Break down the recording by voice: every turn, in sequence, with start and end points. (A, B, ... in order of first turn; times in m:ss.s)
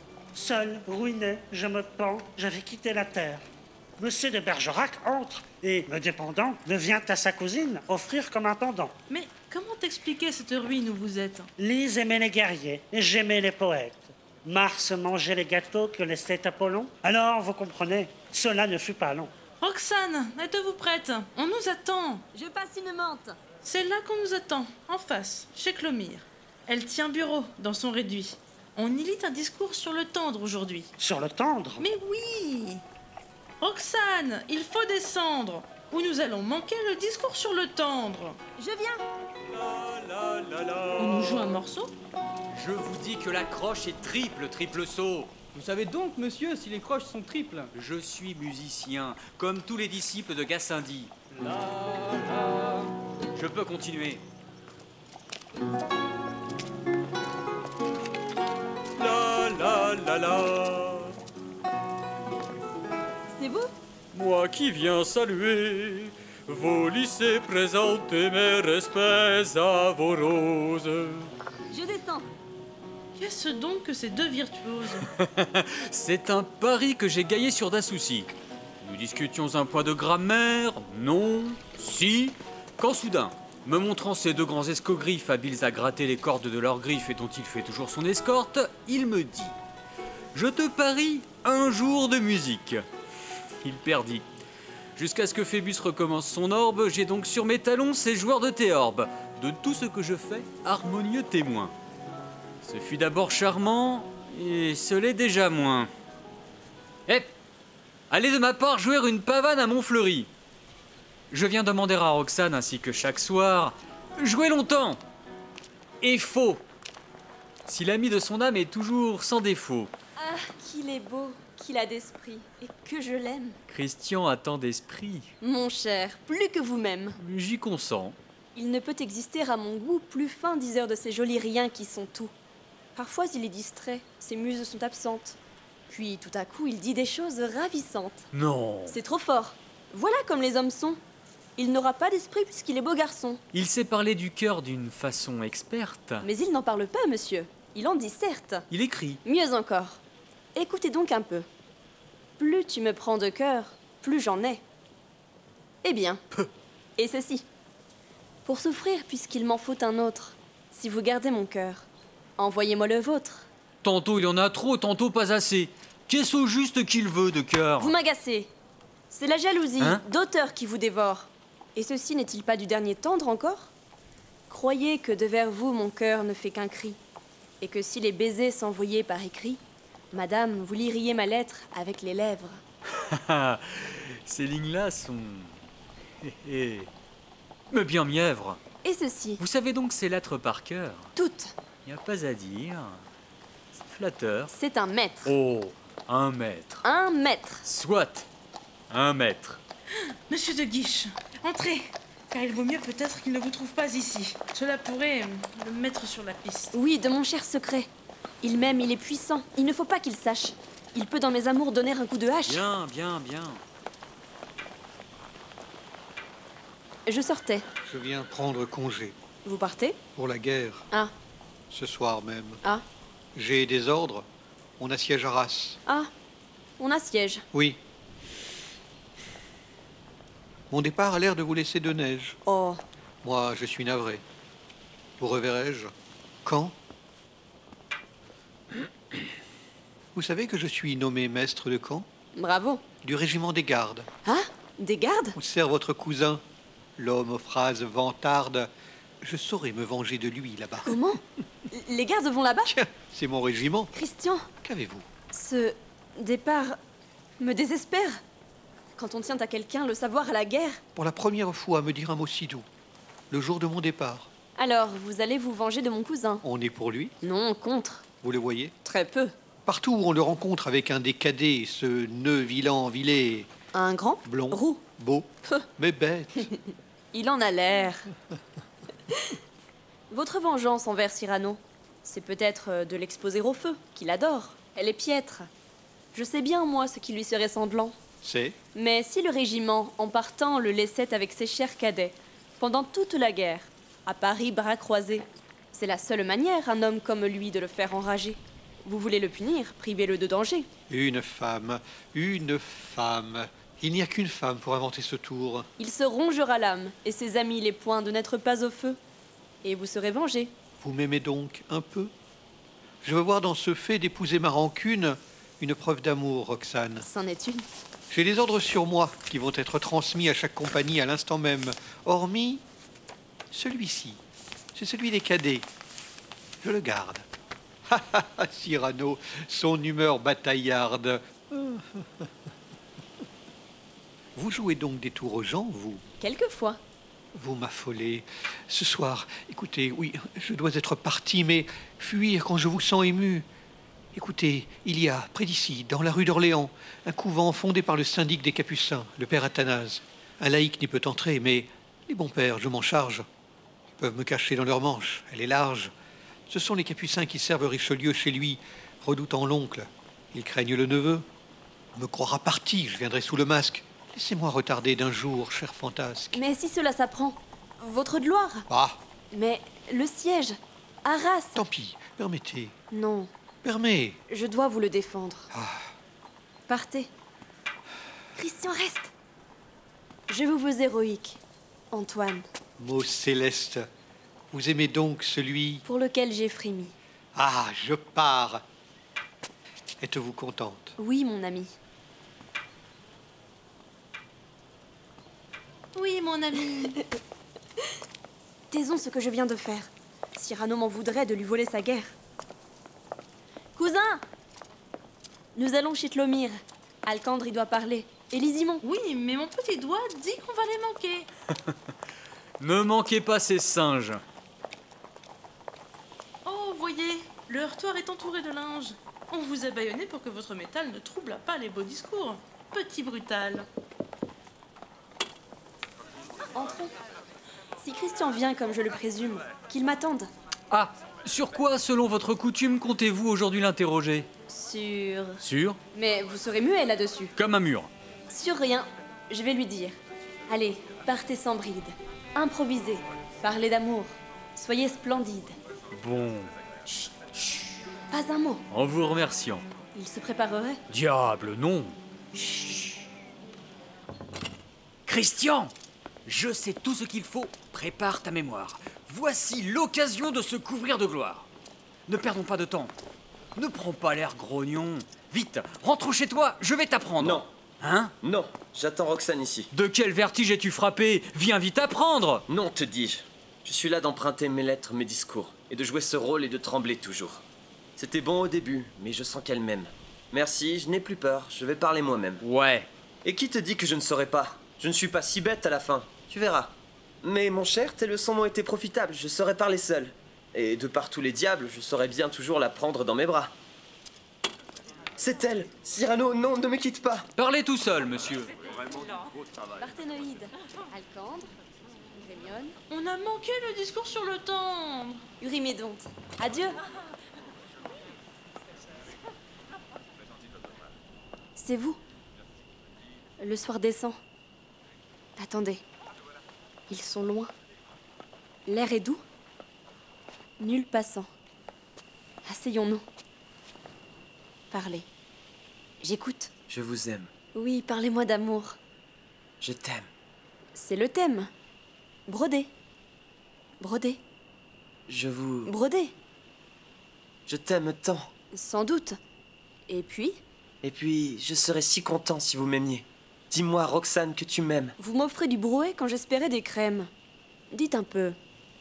0:00.3-0:03.4 A
0:04.0-0:08.9 A
0:09.1-0:11.5 B
0:11.6-0:19.3 A
0:19.6-0:22.2 B
0:22.3-0:23.4 C
0:23.6-0:30.9 B
0:31.0-0:31.8 A
0:31.8-0:32.8 B
0:33.6-0:38.4 B
0:38.6-0:39.0 C
0:39.5-0:41.4 D
0:41.0-0:41.9 B
0:42.5-0:45.3 D
0:45.5-0:47.7 E
0:47.7-0:54.2 D
0:59.0-1:01.1 D
1:03.3-1:03.7 C
1:04.1-1:11.3 D
1:11.7-1:12.3 C
1:13.2-1:15.1 B
1:15.1-1:29.6 D
1:30.3-1:32.8 D
1:33.6-1:34.2 D
1:35.0-1:41.7 D
1:42.6-1:45.9 D
1:48.1-1:50.3 D
1:51.3-1:55.0 D
1:56.0-1:56.6 D
1:57.7-1:59.9 D
2:00.2-2:03.6 C
2:03.7-2:05.3 D
2:05.4-2:07.2 C
2:07.2-2:08.2 D
2:08.5-2:12.3 C
2:13.0-2:18.3 C
2:18.3-2:19.0 D
2:18.9-2:21.0 C
2:21.6-2:23.4 C
2:23.5-2:26.2 D
2:26.2-2:28.6 C
2:28.7-2:29.2 D
2:29.2-2:30.0 C
2:30.5-2:31.5 C
2:32.4-2:34.6 C
2:35.8-2:36.2 C
2:37.0-2:37.5 C
2:38.4-2:43.5 C
2:43.8-2:47.9 D
2:47.8-2:48.5 C
2:49.1-2:53.7 C
2:49.8-2:50.0 D
2:54.5-2:57.0 C
2:57.6-2:59.6 C
3:00.1-3:02.6 C
3:02.9-3:05.6 D
3:06.2-3:06.9 D
3:07.7-3:08.6 D
3:08.8-3:09.4 C
3:09.4-3:11.1 D
3:11.2-3:11.5 C
3:11.8-3:13.0 D
3:13.7-3:14.5 D
3:14.5-3:15.3 C
3:15.2-3:16.8 D
3:16.8-3:17.6 C
3:17.6-3:18.3 D
3:18.9-3:19.6 D
3:20.0-3:26.7 B
3:26.7-3:27.9 C
3:28.4-3:32.6 C
3:32.5-3:33.6 D
3:37.1-3:37.6 C
3:37.8-3:39.1 F
3:39.4-3:40.0 C
3:40.2-3:40.9 F
3:41.7-3:42.6 F
3:43.3-3:44.3 F
3:44.8-3:45.8 F
3:46.8-3:47.4 C
3:47.5-3:47.8 F
3:50.7-3:52.4 F
3:52.4-3:52.8 C
3:53.2-3:54.2 F
3:55.2-3:55.9 F
3:56.4-3:56.7 F
4:00.1-4:02.0 F
4:02.4-4:02.8 C
4:03.0-4:04.1 F
4:04.2-4:05.4 C
4:05.4-4:06.4 F
4:07.0-4:08.7 F
4:09.2-4:11.0 F
4:10.8-4:11.2 C
4:11.7-4:12.7 C
4:12.6-4:13.9 F
4:13.9-4:14.5 C
4:14.6-4:15.1 F
4:15.3-4:16.8 C
4:17.4-4:18.2 C
4:19.0-4:20.8 C
4:20.9-4:22.6 F
4:23.3-4:24.3 F
4:24.6-4:26.4 C
4:26.4-4:27.1 F
4:27.2-4:28.0 C
4:28.2-4:28.7 F
4:28.8-4:29.3 C
4:29.6-4:33.5 F
4:33.7-4:34.8 C
4:34.2-4:36.5 F
4:37.1-4:38.1 C
4:40.1-4:45.5 C
4:46.1-4:48.0 C
4:48.2-4:48.6 F
4:48.7-5:00.7 C
5:00.9-5:05.7 F
5:05.8-5:09.0 C
5:09.6-5:10.5 C
5:10.8-5:12.1 F
5:13.0-5:17.0 F
5:17.0-5:17.7 C
5:18.1-5:22.6 F
5:23.5-5:24.2 F
5:24.7-5:25.7 F
5:26.6-5:27.3 F
5:27.9-5:32.3 F
5:34.4-5:36.0 F
5:36.2-5:36.8 C
5:37.3-5:43.5 F
5:44.1-5:53.2 F
5:54.0-5:55.9 F
5:56.5-6:01.3 F
6:01.9-6:06.4 F
6:06.3-6:08.7 C
6:08.7-6:09.0 F
6:09.3-6:11.6 C
6:11.5-6:12.7 F
6:12.9-6:13.3 C
6:13.6-6:14.2 F
6:14.3-6:15.5 C
6:15.5-6:15.9 F
6:16.7-6:17.1 C
6:18.4-6:19.1 C
6:20.3-6:21.4 C
6:21.9-6:22.4 C
6:22.8-6:23.9 F
6:24.5-6:25.8 F
6:25.8-6:26.9 C
6:27.3-6:28.6 F
6:30.0-6:30.9 F
6:31.0-6:31.8 C
6:35.9-6:37.0 B
6:38.7-6:42.1 C
6:43.8-6:44.2 C
6:45.5-6:48.8 C
6:48.8-6:51.3 B
6:52.6-6:54.2 D
6:56.4-7:03.6 B
7:06.5-7:06.9 C
7:07.8-7:10.3 C
7:10.7-7:14.3 D
7:14.5-7:15.4 C
7:15.4-7:15.8 D
7:15.9-7:17.3 C
7:17.4-7:17.9 D
7:18.3-7:20.0 C
7:20.5-7:25.5 C
7:25.9-7:27.7 D
7:28.1-7:28.6 C
7:28.7-7:29.6 D
7:29.9-7:30.8 C
7:30.9-7:32.0 D
7:32.4-7:32.9 C
7:35.1-7:35.7 D
7:36.2-7:41.5 D
7:42.1-7:42.9 D
7:43.6-7:48.1 D
7:47.2-7:47.5 G
7:48.2-7:49.7 G
7:49.7-7:52.4 D
7:52.5-7:57.4 G
7:58.0-8:02.4 G
8:02.4-8:02.9 D
8:03.2-8:13.5 G
8:15.2-8:17.3 G
8:17.4-8:18.5 D
8:19.8-8:21.5 C
8:22.1-8:22.8 C
8:22.9-8:25.2 B
8:25.4-8:26.8 C
8:31.6-8:32.0 C
8:33.4-8:34.2 C
8:35.4-8:35.8 C
8:36.9-8:37.5 C
8:38.7-8:39.2 C
8:40.6-8:41.3 C
8:42.4-8:43.0 C
8:44.7-8:45.1 C
8:46.0-8:46.5 C
8:46.7-8:47.3 G
8:47.5-8:48.8 C
8:49.6-8:50.1 G
8:50.7-8:51.5 C
8:52.3-8:52.7 C
8:53.8-8:54.2 C
8:55.1-8:55.7 G
8:55.6-8:56.1 C
8:57.5-8:58.3 G
8:58.5-8:59.2 C
8:59.9-9:00.4 C
9:00.8-9:05.0 G
9:05.0-9:07.1 C
9:07.7-9:08.4 C